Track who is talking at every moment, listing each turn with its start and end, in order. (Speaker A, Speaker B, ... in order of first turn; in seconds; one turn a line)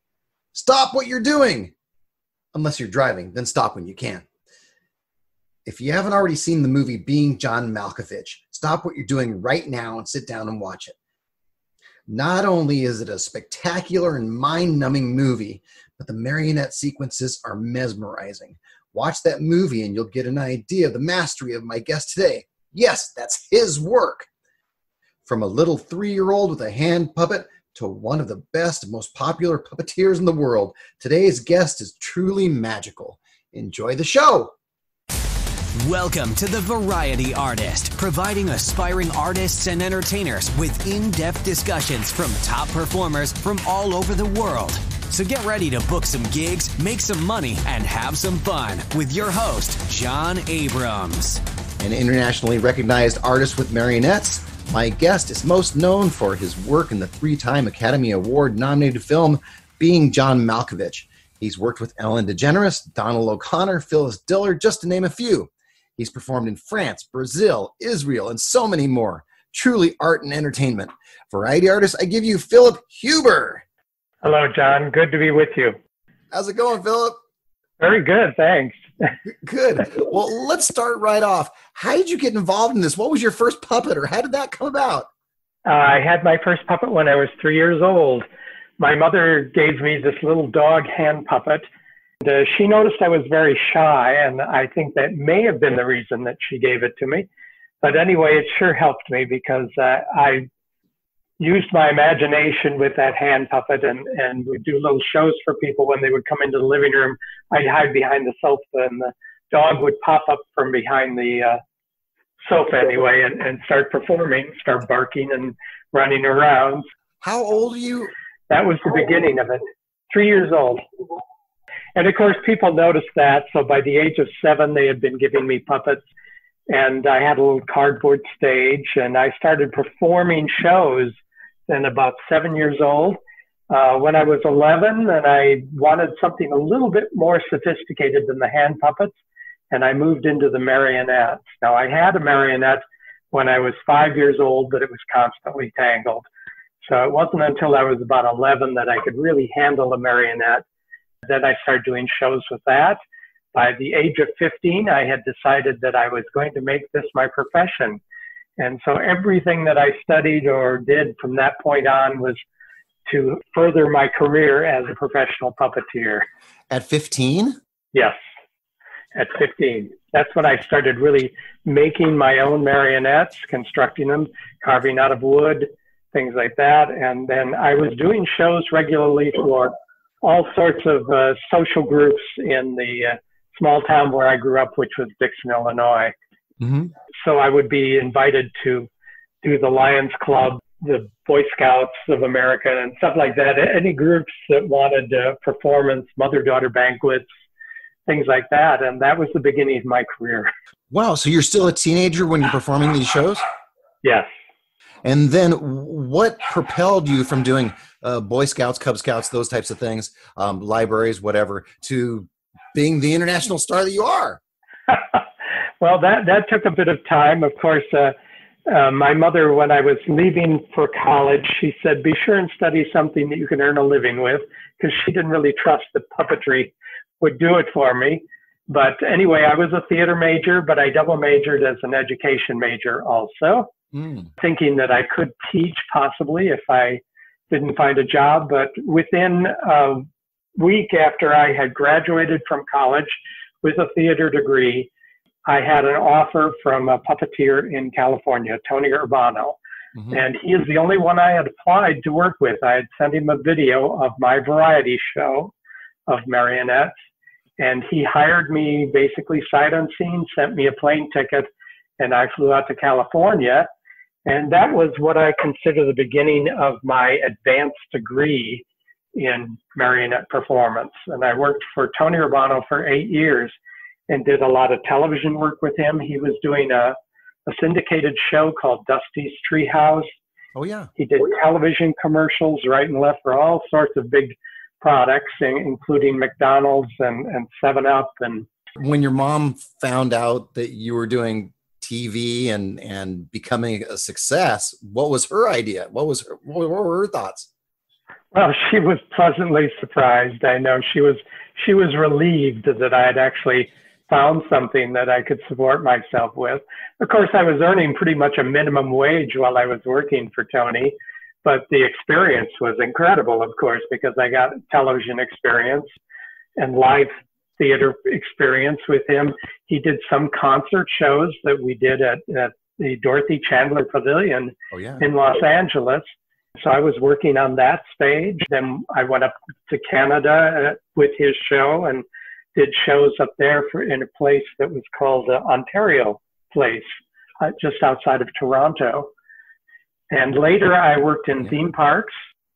Speaker A: 0.5-1.7
Speaker A: 2.5-4.3
Speaker A: 5.7-10.9
Speaker A: 12.1-24.3
Speaker A: 25.3-34.5
Speaker B: 35.8-51.4
Speaker A: 51.8-73.6
Speaker C: 74.2-75.8
Speaker A: 76.3-77.2
Speaker C: 77.8-79.1
Speaker A: 79.3-85.1
Speaker C: 85.7-88.2
Speaker C: 88.8-91.7
Speaker C: 92.2-97.3
Speaker C: 97.8-100.5
Speaker C: 101.4-111.6
Speaker C: 112.4-116.8
Speaker A: 117.2-118.1
Speaker C: 118.5-120.8
Speaker C: 122.0-126.0
Speaker C: 126.7-131.2
Speaker C: 131.7-133.2
Speaker C: 133.7-139.2
Speaker C: 139.7-146.2
Speaker C: 146.8-150.6
Speaker C: 151.2-153.0
Speaker C: 153.5-158.0
Speaker C: 158.6-162.4
Speaker C: 163.1-166.3
Speaker A: 166.7-167.6
Speaker C: 167.9-168.2
Speaker C: 169.2-186.1
Speaker A: 186.6-186.9
Speaker C: 187.2-188.9
Speaker C: 189.4-197.3
Speaker C: 198.1-200.5
Speaker A: 200.9-203.4
Speaker C: 204.0-204.3
Speaker A: 205.0-214.4
Speaker C: 214.9-215.2
Speaker C: 215.8-218.2
Speaker C: 218.7-233.7
Speaker A: 233.9-234.3
Speaker C: 234.4-240.1
Speaker C: 240.6-244.9
Speaker C: 245.5-249.6
Speaker C: 250.1-255.5
Speaker C: 256.1-256.9
Speaker C: 257.6-263.7
Speaker C: 264.3-273.6
Speaker C: 274.1-280.1
Speaker A: 280.6-280.9
Speaker C: 281.0-288.5
Speaker A: 288.8-297.5
Speaker C: 298.3-315.9
Speaker C: 316.6-332.0
Speaker A: 324.7-325.0
Speaker C: 332.6-339.1
Speaker C: 340.1-342.2